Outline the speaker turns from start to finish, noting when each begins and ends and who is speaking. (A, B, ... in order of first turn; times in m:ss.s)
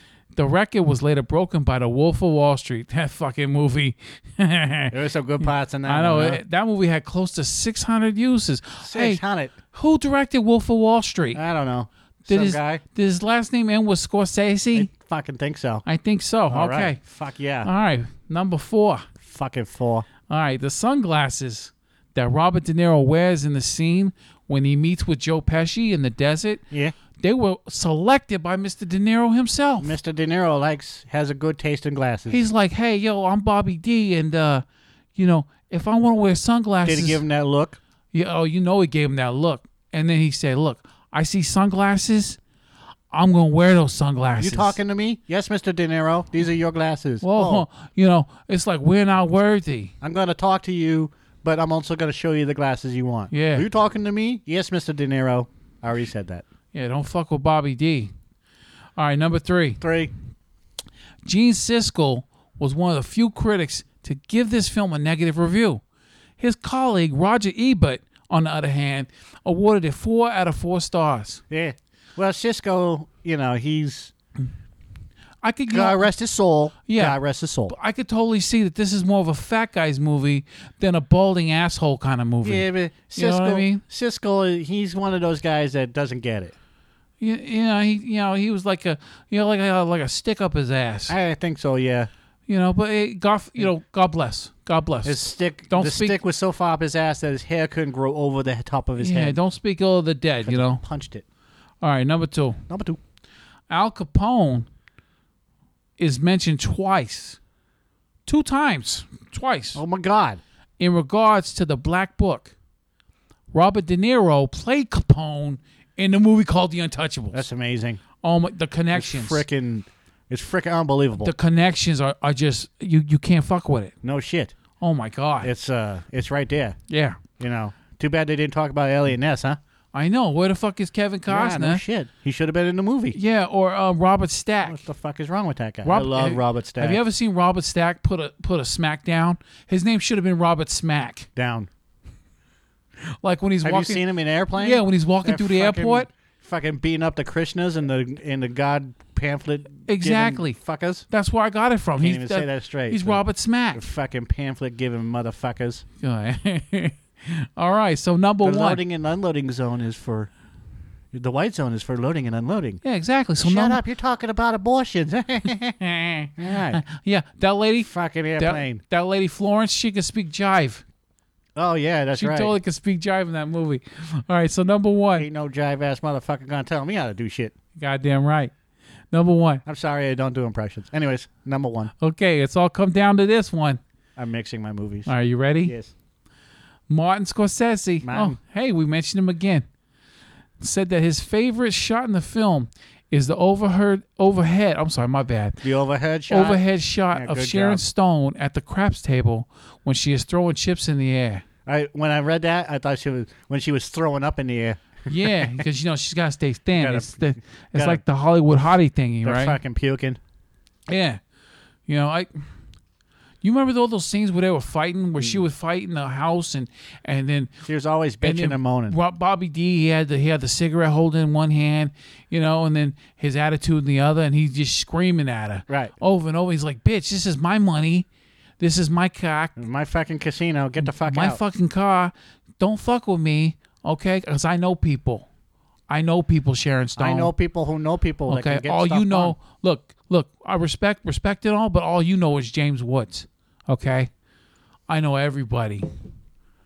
0:00.3-0:05.0 A
0:04.9-0:06.4 B
0:05.8-0:09.2 A
0:08.8-0:09.5 B
0:09.7-0:11.4 A
0:11.3-0:12.8 B
0:12.3-0:14.9 A
0:14.7-0:15.8 B
0:15.8-0:17.0 A
0:16.5-0:17.7 B
0:17.6-0:19.1 A
0:19.2-0:20.1 B
0:20.3-0:26.6 A
0:26.7-0:27.0 B
0:27.2-0:30.0 A
0:29.8-0:32.5 B
0:32.3-0:34.6 A
0:35.2-0:37.2 A
0:36.8-0:37.8 B
0:38.1-0:42.4 A
0:43.1-0:44.8 A
0:44.4-0:47.7 B
0:47.2-0:49.9 A
0:50.0-0:56.4 B
0:53.3-0:53.7 A
0:56.7-0:58.1 A
0:59.0-0:59.8 A
0:59.8-1:00.1 B
1:01.2-1:05.8 A
1:06.4-1:11.4 A
1:11.5-1:14.1 B
1:15.4-1:16.1 A
1:15.7-1:17.8 B
1:16.9-1:23.8 A
1:22.4-1:26.5 B
1:27.2-1:31.2 A
1:31.1-1:32.1 B
1:32.5-1:36.2 A
1:35.0-1:39.4 B
1:39.0-1:40.8 A
1:40.4-1:41.2 B
1:41.8-1:42.6 A
1:42.7-1:43.0 B
1:43.7-1:44.7 A
1:46.0-1:47.4 A
1:48.3-1:49.8 A
1:49.8-1:50.4 B
1:50.8-1:52.5 A
1:53.5-1:57.5 A
1:57.3-1:58.0 B
1:58.2-1:59.4 A
1:58.9-2:01.3 B
2:01.2-2:03.9 A
2:04.0-2:04.5 B
2:04.8-2:05.5 A
2:05.4-2:06.8 B
2:06.9-2:07.2 A
2:07.4-2:09.6 B
2:09.9-2:11.8 A
2:11.3-2:13.2 B
2:13.1-2:14.8 A
2:14.6-2:17.0 B
2:15.8-2:21.3 A
2:21.4-2:21.7 B
2:23.2-2:24.0 A
2:23.6-2:31.1 B
2:24.6-2:26.1 A
2:29.9-2:30.6 A
2:31.1-2:33.8 A
2:32.0-2:35.8 B
2:36.0-2:38.8 A
2:38.4-2:40.3 B
2:41.1-2:42.8 B
2:42.8-2:43.8 A
2:43.4-2:45.8 B
2:45.8-2:50.8 A
2:46.4-2:46.8 B
2:47.8-2:48.8 B
2:51.6-2:52.6 B
2:52.1-2:55.3 A
2:55.2-2:57.5 B
2:57.8-2:58.5 A
2:59.1-2:59.6 A
2:59.7-3:01.9 B
3:02.0-3:03.8 A
3:04.2-3:05.1 B
3:05.1-3:05.8 A
3:05.6-3:05.9 B
3:06.9-3:09.7 A
3:08.0-3:08.4 B
3:10.6-3:15.7 A
3:15.6-3:17.8 B
3:16.3-3:21.4 A
3:21.7-3:25.6 B
3:25.1-3:29.6 A
3:26.8-3:28.0 B
3:29.2-3:30.2 B
3:30.9-3:31.2 A
3:31.9-3:32.3 A
3:33.4-3:37.5 A
3:35.2-3:35.4 B
3:37.7-3:39.0 B
3:38.2-3:48.1 A
3:48.6-3:49.6 A
3:49.6-3:51.4 B
3:50.8-3:55.3 A
3:55.9-3:57.3 A
3:57.0-3:59.4 B
3:58.3-4:04.1 A
4:04.9-4:05.9 A